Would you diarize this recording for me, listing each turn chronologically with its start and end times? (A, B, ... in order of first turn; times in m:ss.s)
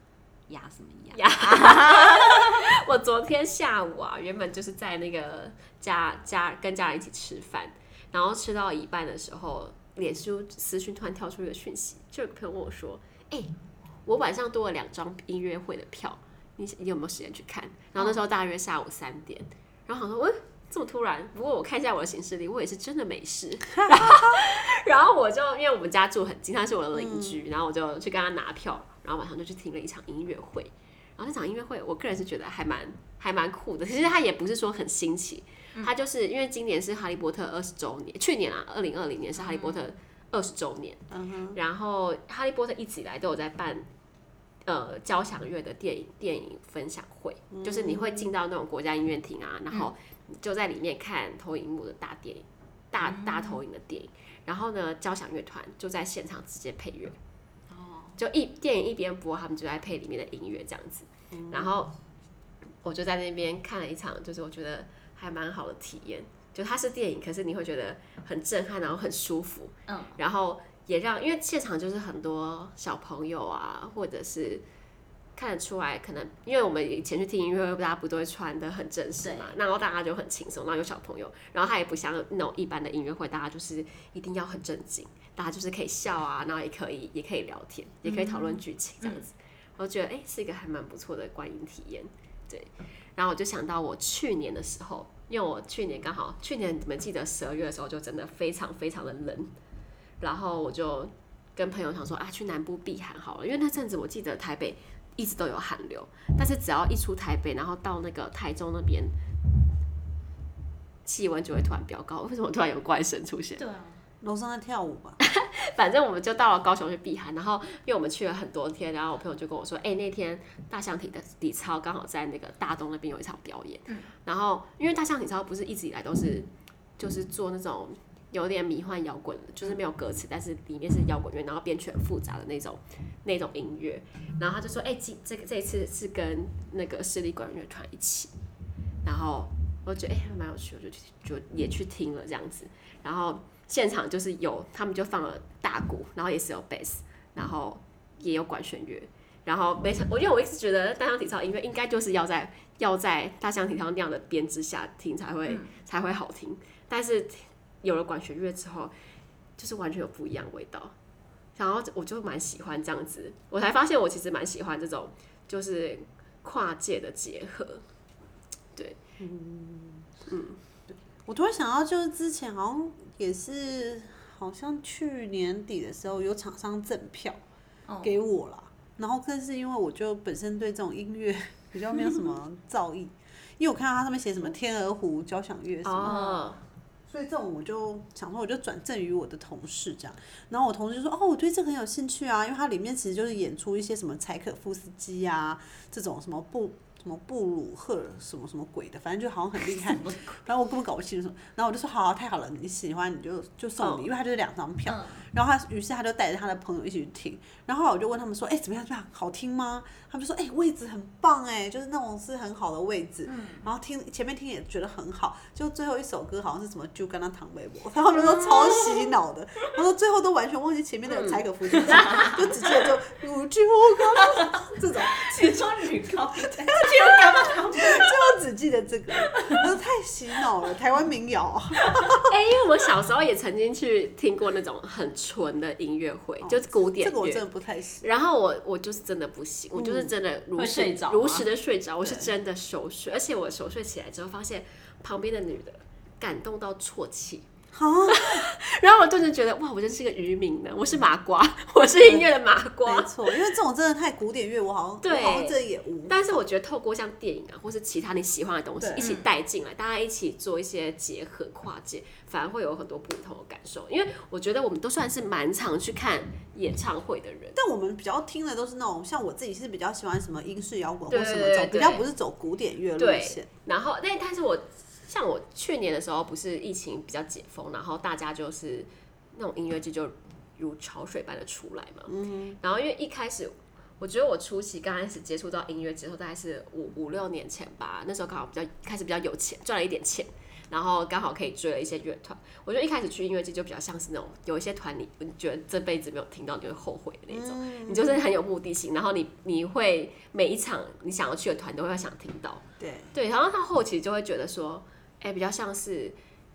0:00.5-0:02.6 A
0:01.1-0:13.5 B
0:14.0-0:41.0 B
0:23.7-0:24.4 C
0:26.9-0:27.4 C
0:39.3-0:39.9 A
0:41.1-0:41.6 C
0:41.5-0:43.8 B
0:44.6-0:57.1 B
0:47.5-0:48.3 C
0:53.0-0:53.6 A
0:57.7-0:58.2 A
0:58.2-1:01.9 B
1:01.3-1:01.7 C
1:02.8-1:14.6 B
1:09.9-1:10.2 A
1:15.4-1:39.5 B
1:19.2-1:19.6 A
1:28.0-1:29.2 A
1:40.2-1:49.1 B
1:51.0-1:53.6 B
1:53.6-1:54.0 A
1:54.2-1:55.2 C
1:55.2-2:18.3 B
2:19.0-2:38.9 B
2:35.5-2:35.7 A
2:39.6-2:40.9 B
2:41.6-2:47.8 B
2:49.2-2:50.1 C
2:50.3-2:50.6 B
2:50.9-2:57.4 C
2:57.9-2:58.1 A
2:58.0-3:06.6 C
3:05.8-3:06.6 B
3:06.0-3:06.4 A
3:07.1-3:52.3 C
3:19.8-3:20.4 A
3:23.8-3:24.0 A
3:24.8-3:25.2 A
3:33.2-3:33.7 A
3:38.2-3:38.8 B
3:41.1-3:42.4 B
3:41.7-3:42.7 A
3:44.1-3:48.3 A
3:49.1-3:49.7 A
3:52.3-3:57.4 B
3:56.4-3:58.1 C
3:58.0-4:07.5 B
3:59.7-4:00.1 C
4:00.5-4:01.5 A
4:07.7-4:08.5 C
4:08.1-4:13.1 B
4:12.0-4:12.3 C
4:12.8-4:16.4 C
4:15.0-4:27.6 B
4:18.8-4:19.1 C
4:19.0-4:19.3 A
4:27.5-4:33.5 C
4:31.1-4:32.0 B
4:33.0-5:06.2 B
4:42.1-4:42.6 C
4:57.3-4:58.2 C
5:02.8-5:03.1 C